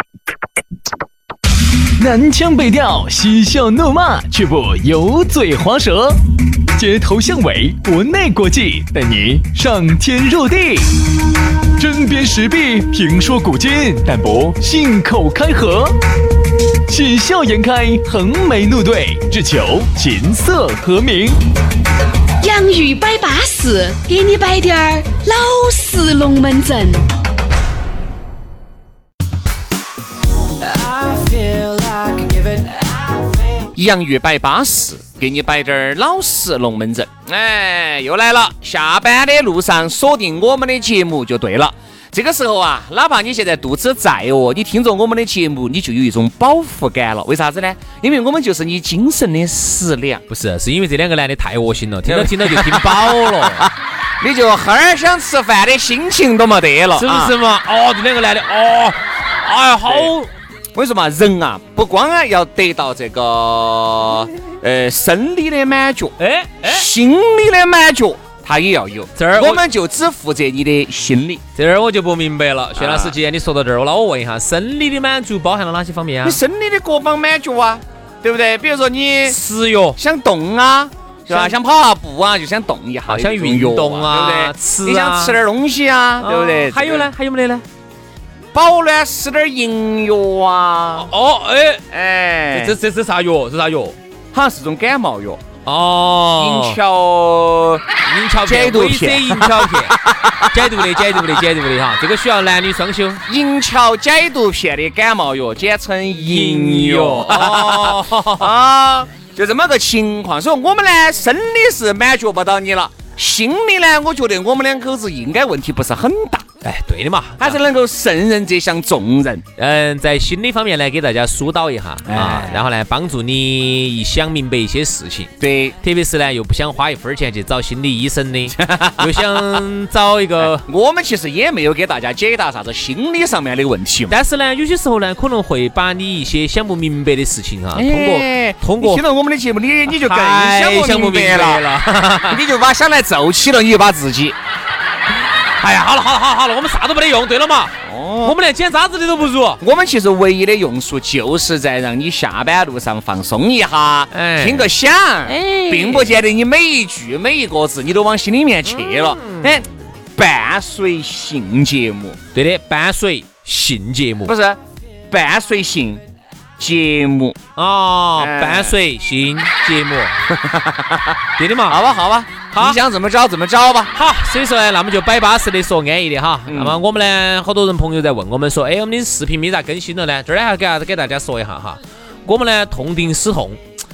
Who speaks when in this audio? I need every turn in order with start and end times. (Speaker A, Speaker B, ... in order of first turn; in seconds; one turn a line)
Speaker A: 2.0-6.2
Speaker A: 6.8-10.9
Speaker A: 11.8-15.9
Speaker A: 16.9-21.4
Speaker B: 22.4-27.1
Speaker C: 33.6-50.2
Speaker D: 50.3-53.7
Speaker C: 52.0-57.3
Speaker D: 56.9-60.3
Speaker C: 60.7-71.4
Speaker D: 66.2-66.9
Speaker D: 69.2-69.6
Speaker D: 71.5-76.4
Speaker C: 72.8-73.2
Speaker C: 76.2-79.4
Speaker D: 79.2-80.0
Speaker C: 80.0-87.1
Speaker D: 81.3-81.5
Speaker D: 83.1-85.4
Speaker D: 86.2-87.6
Speaker C: 88.5-91.1
Speaker D: 91.0-91.8
Speaker C: 91.9-92.8
Speaker D: 92.5-94.0
Speaker C: 94.3-95.4
Speaker D: 95.7-96.8
Speaker C: 96.4-97.8
Speaker D: 98.0-103.2
Speaker C: 98.4-101.4
Speaker C: 103.3-116.5
Speaker D: 106.2-108.5
Speaker D: 116.6-117.6
Speaker C: 117.4-119.4
Speaker D: 119.6-130.6
Speaker C: 122.0-122.6
Speaker C: 125.4-125.8
Speaker C: 128.5-129.6
Speaker C: 130.4-134.2
Speaker D: 134.1-139.0
Speaker C: 137.7-141.7
Speaker D: 139.9-142.4
Speaker C: 142.2-144.4
Speaker D: 145.6-149.6
Speaker C: 147.8-148.4
Speaker C: 149.6-162.2
Speaker D: 154.1-154.7
Speaker D: 155.2-156.2
Speaker D: 158.7-159.5
Speaker D: 162.3-164.3
Speaker C: 164.2-166.0
Speaker C: 166.6-167.4
Speaker D: 167.6-170.2
Speaker C: 168.2-168.7
Speaker C: 170.3-173.9
Speaker D: 171.4-171.8
Speaker D: 172.5-172.8
Speaker D: 173.9-183.6
Speaker C: 176.5-176.8